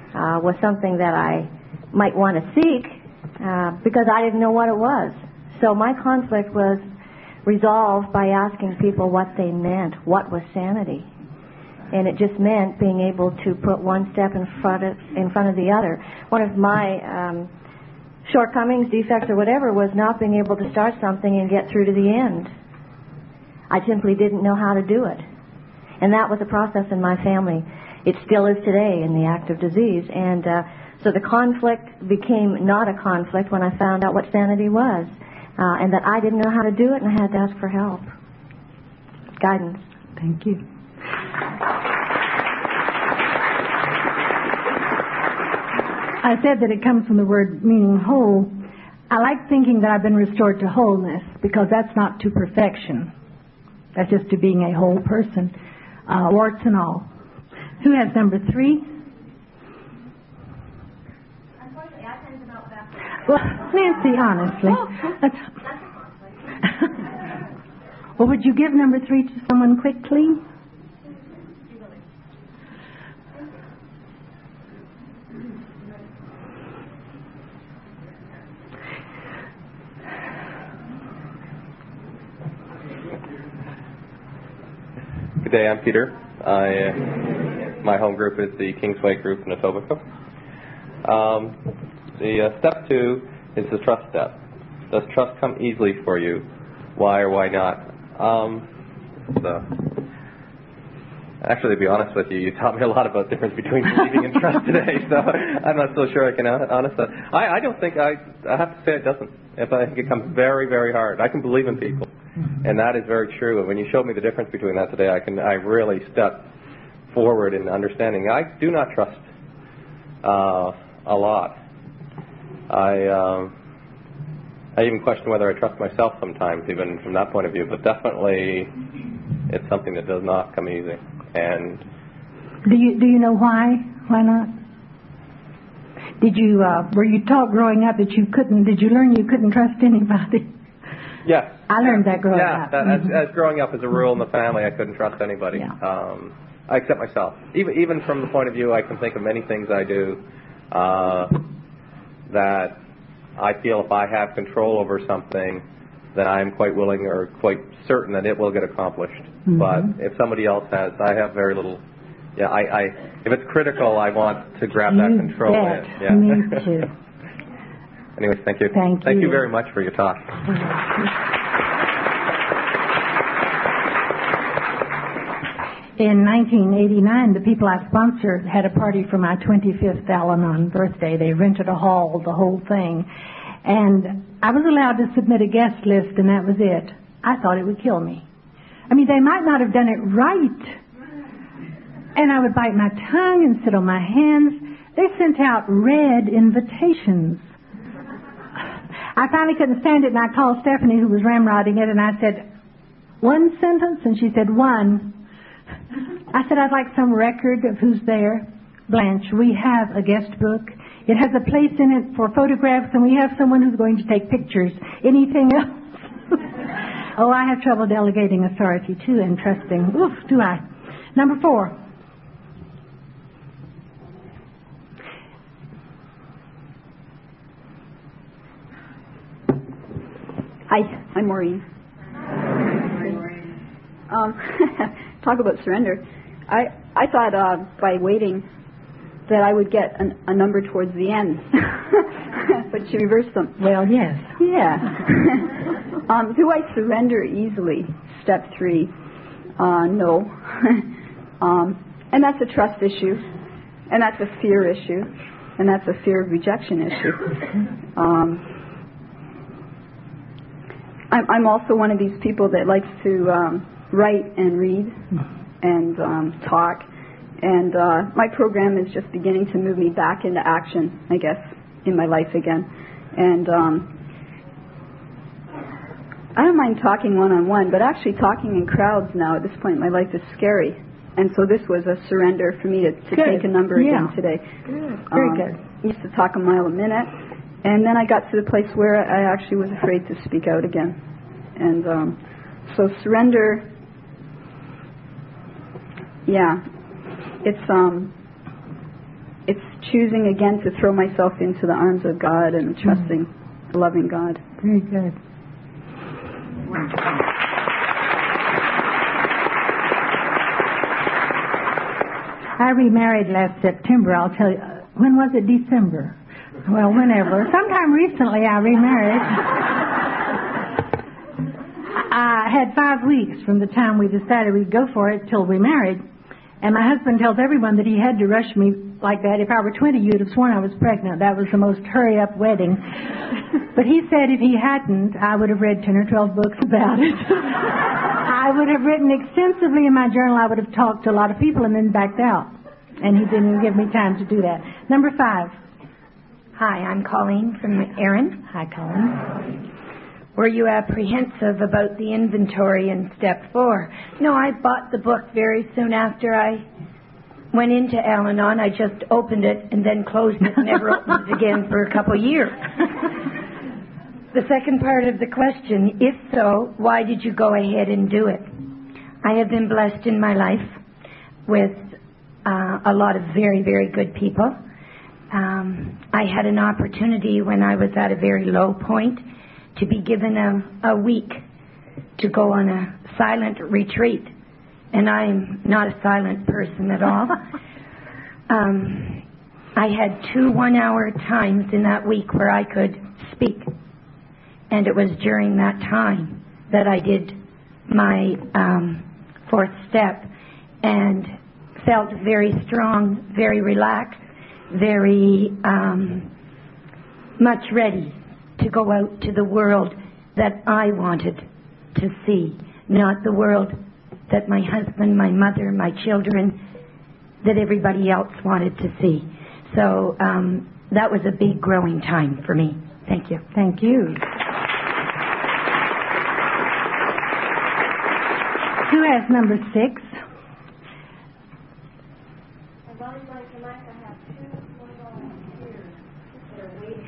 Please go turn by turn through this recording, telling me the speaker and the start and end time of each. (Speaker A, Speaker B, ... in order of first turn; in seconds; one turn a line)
Speaker A: 0.1-6.8
Speaker A: 7.4-11.1
Speaker A: 11.9-17.5
Speaker A: 18.2-22.5
Speaker A: 23.7-25.2
Speaker A: 26.0-38.1
Speaker A: 39.4-39.8
Speaker B: 40.2-40.6
Speaker B: 46.2-48.6
Speaker B: 49.1-53.1
Speaker B: 54.0-55.5
Speaker B: 56.1-57.1
Speaker B: 57.8-58.9
Speaker B: 63.2-65.4
Speaker B: 68.2-70.4
Speaker C: 85.4-87.1
Speaker C: 87.8-90.0
Speaker C: 91.0-91.5
Speaker C: 92.2-94.4
Speaker C: 94.9-96.4
Speaker C: 97.0-98.6
Speaker C: 99.3-99.9
Speaker C: 101.4-112.1
Speaker C: 112.6-116.5
Speaker C: 117.1-119.2
Speaker C: 120.2-121.5
Speaker C: 122.7-123.5
Speaker C: 124.8-128.7
Speaker C: 129.5-131.8
Speaker B: 132.6-134.5
Speaker B: 136.2-140.5
Speaker C: 141.2-151.4
Speaker B: 141.7-143.1
Speaker C: 152.3-152.8
Speaker C: 153.4-155.6
Speaker C: 156.1-161.8
Speaker B: 159.5-159.9
Speaker C: 162.3-166.6
Speaker B: 164.9-166.9
Speaker C: 168.2-170.4
Speaker B: 168.7-169.4
Speaker B: 176.0-183.1
Speaker B: 183.6-188.2
Speaker B: 188.9-190.8
Speaker B: 192.1-197.5
Speaker B: 199.1-202.4
Speaker B: 203.2-205.2
Speaker B: 206.3-216.4
Speaker B: 217.2-221.8
Speaker D: 230.7-231.6
Speaker D: 234.1-238.4
Speaker D: 239.3-243.6
Speaker B: 243.6-244.4
Speaker D: 244.4-245.5
Speaker D: 246.1-248.9
Speaker D: 249.6-253.2
Speaker D: 253.9-258.4
Speaker D: 261.1-265.1
Speaker D: 265.6-266.9
Speaker D: 267.4-273.9
Speaker D: 276.3-284.4
Speaker B: 283.1-284.1
Speaker B: 284.7-285.6
Speaker D: 285.1-291.0
Speaker D: 291.6-293.7
Speaker D: 296.2-296.6
Speaker D: 297.4-298.1
Speaker D: 299.5-304.4
Speaker B: 304.6-305.1
Speaker B: 312.6-319.6
Speaker B: 321.9-326.0
Speaker B: 326.6-332.9
Speaker B: 333.7-345.5
Speaker E: 346.6-348.4
Speaker B: 348.5-349.2
Speaker E: 350.4-356.6
Speaker E: 357.5-363.1
Speaker E: 364.3-368.5
Speaker E: 369.2-370.8
Speaker E: 371.4-371.9
Speaker E: 372.4-374.6
Speaker E: 375.3-379.2
Speaker E: 379.7-381.4
Speaker E: 382.2-384.3
Speaker E: 384.9-387.4
Speaker E: 388.5-389.2
Speaker E: 389.7-393.7
Speaker E: 394.7-397.4
Speaker E: 397.9-400.3
Speaker E: 400.8-406.3
Speaker E: 407.4-416.6
Speaker E: 417.4-423.4
Speaker B: 423.5-424.2
Speaker B: 428.8-430.1